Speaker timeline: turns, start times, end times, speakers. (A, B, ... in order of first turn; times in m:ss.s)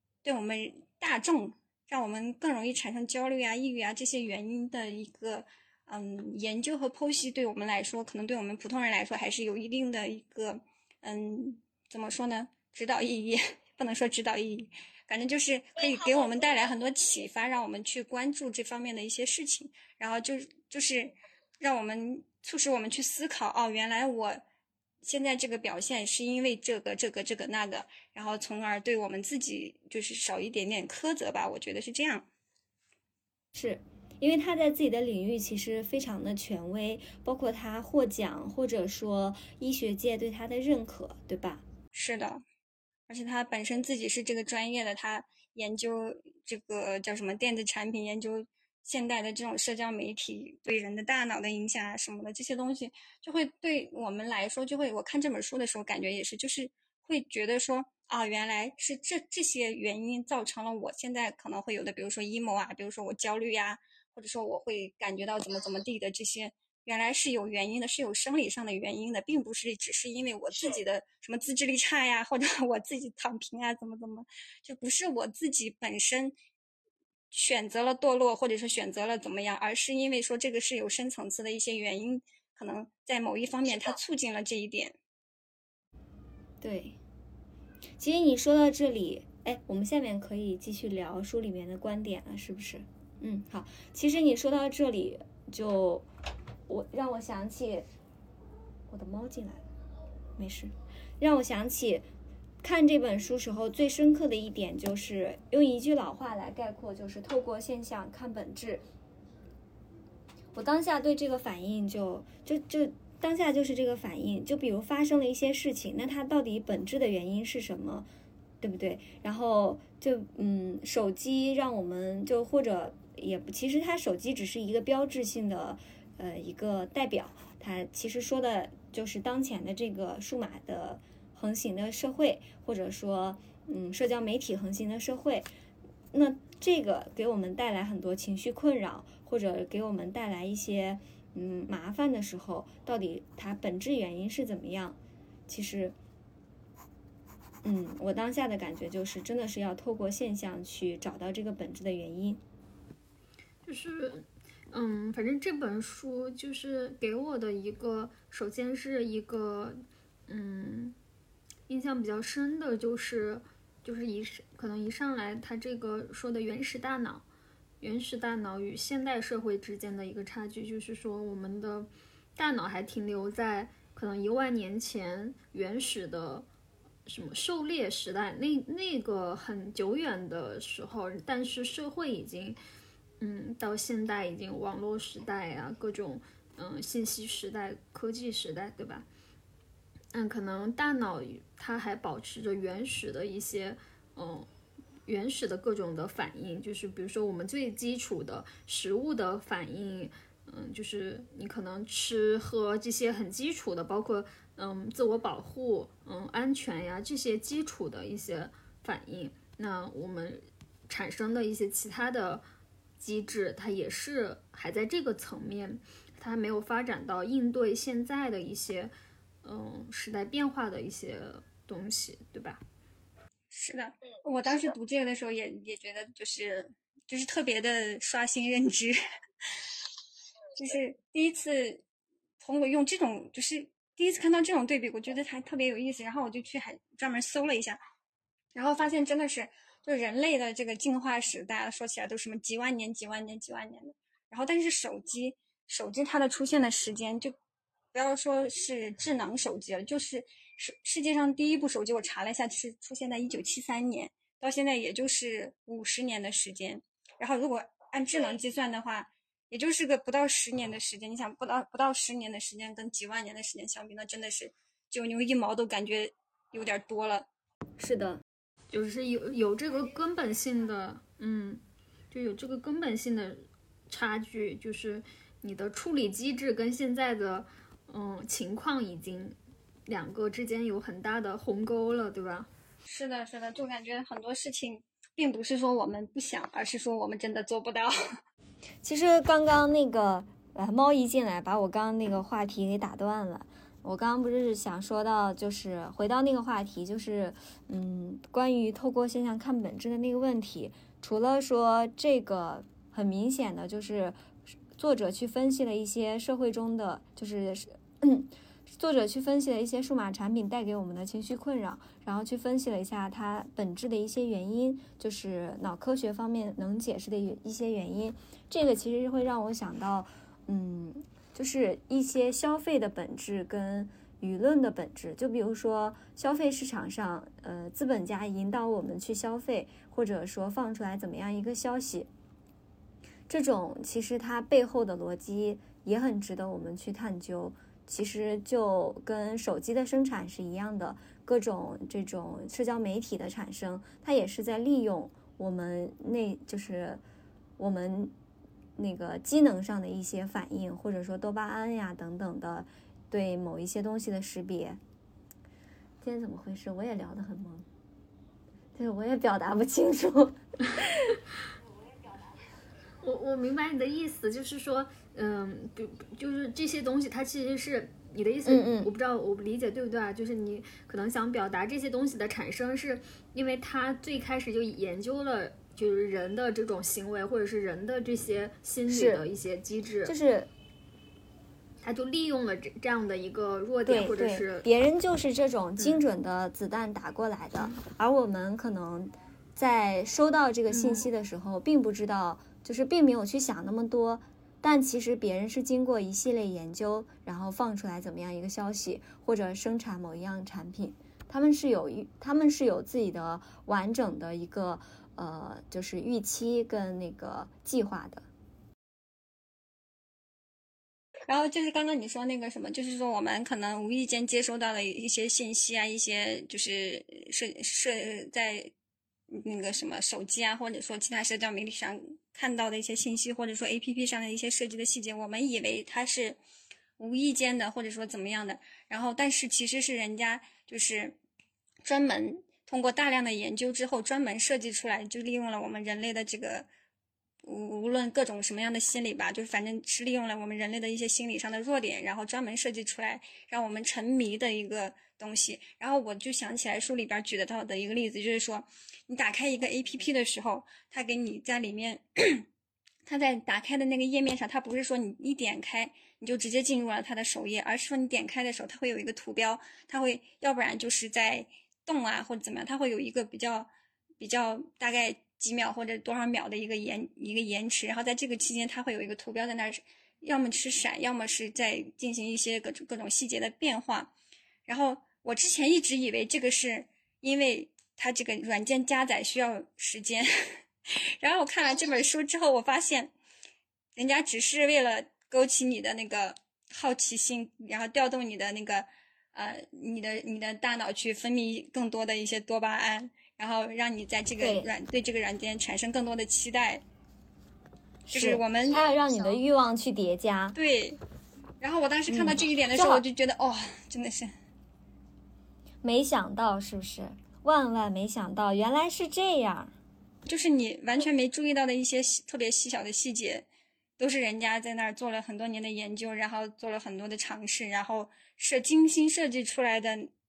0:00.2-0:24.4 A
0:25.0-0:32.2 A
0:33.5-0:41.6 B
0:41.9-0:42.4 A
0:43.1-1:16.3 A
1:17.3-1:25.0 A
1:26.6-1:27.0 B
1:28.0-1:36.1 B
1:36.7-1:37.9 B
1:38.9-1:39.6 B
1:40.4-1:42.1 B
1:42.6-1:48.8 B
1:50.5-1:58.1 B
1:58.6-2:15.5 B
2:16.1-2:25.0 B
2:25.5-2:26.0 B
2:27.6-2:32.4 B
2:33.6-2:41.0 C
2:41.7-2:47.2 C
2:47.8-2:56.5 C
2:57.0-3:02.6 C
3:03.2-3:09.0 C
3:10.1-3:14.5 C
3:15.1-3:32.4 C
3:33.0-3:38.9 C
3:39.4-3:42.6 C
3:43.5-3:49.0 A
3:50.6-3:51.8 A
3:52.4-3:57.8 A
3:58.5-4:07.3 A
4:07.9-4:27.3 A
4:27.8-4:28.2 B
4:28.7-4:39.4 C
4:39.9-4:42.5 C
4:42.8-4:47.9 A
4:48.8-5:04.2 B
5:04.7-5:32.1 B
5:33.3-5:47.0 B
5:47.6-5:48.1 B
5:48.8-5:54.8 B
5:56.0-5:57.7 B
5:58.7-6:00.9 B
6:03.0-6:20.1 C
6:08.4-6:08.9 B
6:18.9-6:19.2 B
6:20.0-6:20.5 B
6:21.8-6:24.6 C
6:23.8-6:48.2 B
6:30.7-6:31.1 C
6:51.3-6:58.7 A
6:59.3-7:06.4 A
7:07.0-7:11.2 A
7:11.8-7:16.7 A
7:17.4-7:32.4 A
7:33.0-7:43.7 A
7:44.2-7:54.1 A
7:54.6-8:00.6 A
8:01.2-8:03.1 A
8:04.0-8:16.8 A
8:14.4-8:14.7 B
8:18.1-8:18.9 A
8:18.1-8:20.6 B
8:20.5-8:21.0 A
8:21.6-8:24.3 A
8:22.1-8:23.0 B
8:25.8-8:29.7 B
8:30.2-8:33.4 A
8:34.0-8:40.1 A